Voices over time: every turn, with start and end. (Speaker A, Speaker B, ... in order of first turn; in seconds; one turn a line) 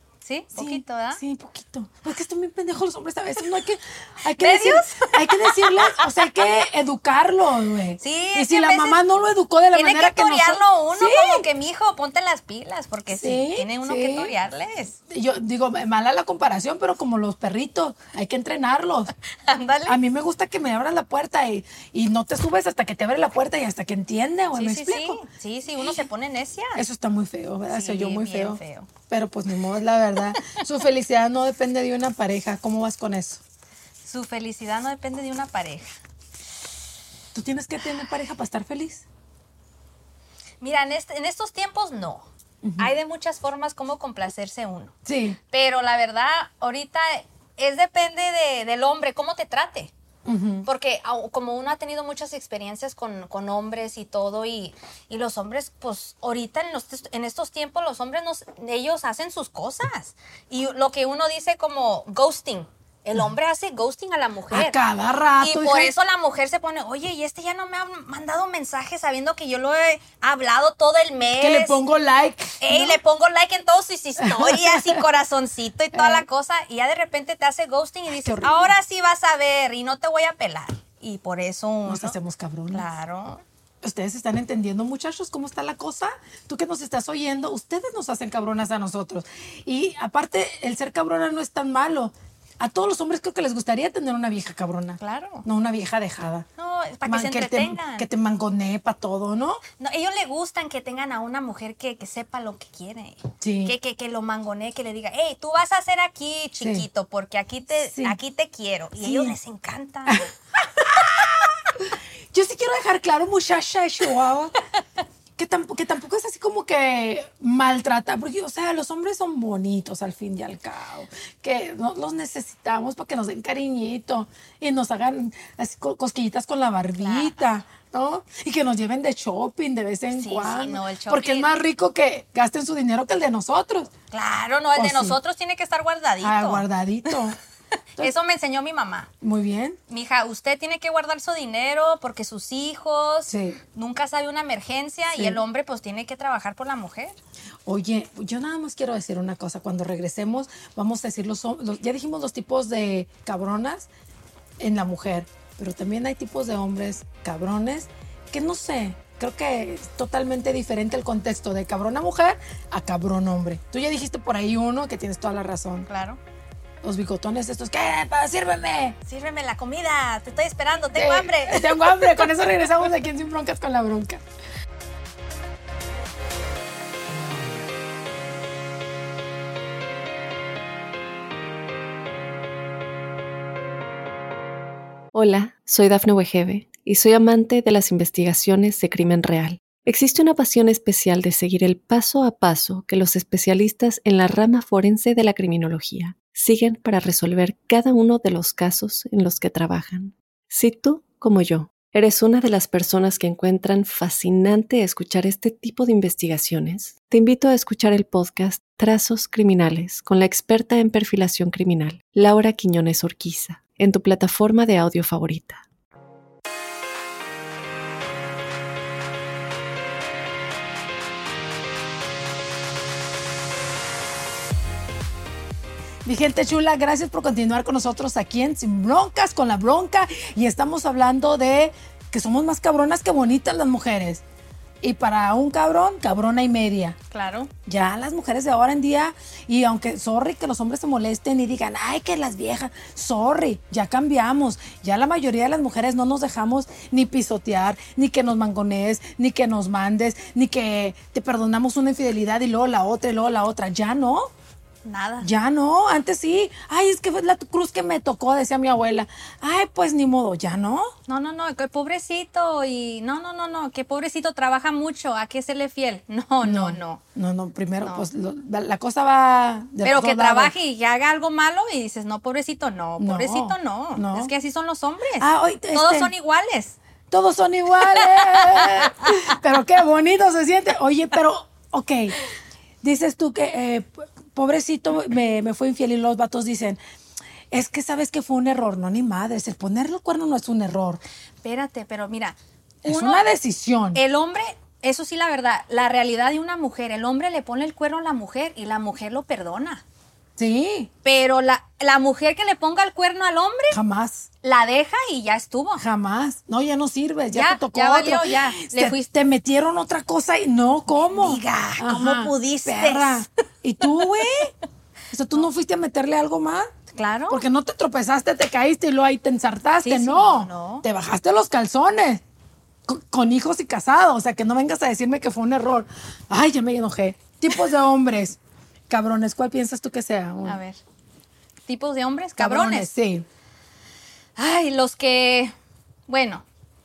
Speaker A: 0.2-1.2
Speaker B: 0.5-11.5
Speaker A: 4.4-6.5
Speaker A: 8.0-9.0
Speaker A: 9.7-15.0
Speaker B: 13.1-14.3
Speaker B: 15.1-19.1
Speaker A: 19.5-20.0
Speaker B: 19.9-25.2
Speaker A: 24.6-26.8
Speaker B: 26.8-33.4
Speaker A: 27.7-28.9
Speaker A: 34.0-35.9
Speaker B: 37.3-39.0
Speaker A: 40.6-42.3
Speaker B: 42.6-42.9
Speaker A: 42.8-44.9
Speaker B: 45.1-45.4
Speaker A: 45.5-49.9
Speaker B: 50.3-50.7
Speaker A: 50.7-64.8
Speaker B: 64.5-65.9
Speaker A: 65.4-71.8
Speaker B: 71.4-73.0
Speaker A: 72.6-82.2
Speaker B: 74.2-75.0
Speaker B: 75.9-76.3
Speaker B: 78.1-78.8
Speaker B: 81.8-82.9
Speaker A: 82.7-83.4
Speaker B: 83.8-96.5
Speaker A: 95.0-95.5
Speaker A: 96.6-98.1
Speaker B: 97.0-99.6
Speaker A: 99.8-111.7
Speaker B: 103.4-103.8
Speaker B: 106.6-106.9
Speaker B: 107.9-108.2
Speaker B: 109.0-109.4
Speaker B: 110.8-114.5
Speaker B: 115.4-133.9
Speaker A: 127.0-127.3
Speaker A: 130.1-131.5
Speaker A: 134.1-137.2
Speaker B: 134.8-135.2
Speaker B: 136.2-137.4
Speaker A: 138.0-139.1
Speaker B: 139.2-139.8
Speaker A: 139.9-147.2
Speaker B: 143.3-143.6
Speaker B: 145.1-145.4
Speaker B: 147.7-153.9
Speaker B: 154.6-165.9
Speaker A: 165.9-166.2
Speaker B: 166.8-169.0
Speaker A: 169.1-172.6
Speaker B: 170.9-174.2
Speaker C: 185.1-215.6
Speaker B: 226.1-234.2
Speaker B: 234.8-237.0
Speaker A: 237.1-237.5
Speaker B: 237.7-254.3
Speaker A: 254.8-255.3
Speaker B: 255.2-260.9
Speaker A: 261.1-267.0
Speaker B: 266.4-270.5
Speaker A: 269.8-276.8
Speaker B: 273.0-274.3
Speaker B: 275.2-276.1
Speaker B: 277.1-282.2
Speaker A: 278.1-279.2
Speaker B: 282.8-286.8
Speaker B: 287.5-291.0
Speaker A: 291.4-293.2
Speaker B: 292.8-294.0
Speaker A: 293.9-299.8
Speaker B: 300.4-300.9
Speaker A: 301.0-303.8
Speaker B: 303.7-304.3
Speaker A: 304.4-305.9
Speaker B: 305.8-314.5
Speaker A: 307.3-309.1
Speaker A: 310.9-313.3
Speaker A: 313.8-314.5
Speaker B: 315.1-316.7
Speaker A: 316.9-317.4
Speaker B: 317.3-322.2
Speaker A: 319.8-320.9
Speaker B: 322.9-330.6
Speaker A: 330.4-330.8
Speaker A: 331.7-332.9
Speaker B: 332.4-333.3
Speaker A: 334.4-335.5
Speaker A: 336.1-336.4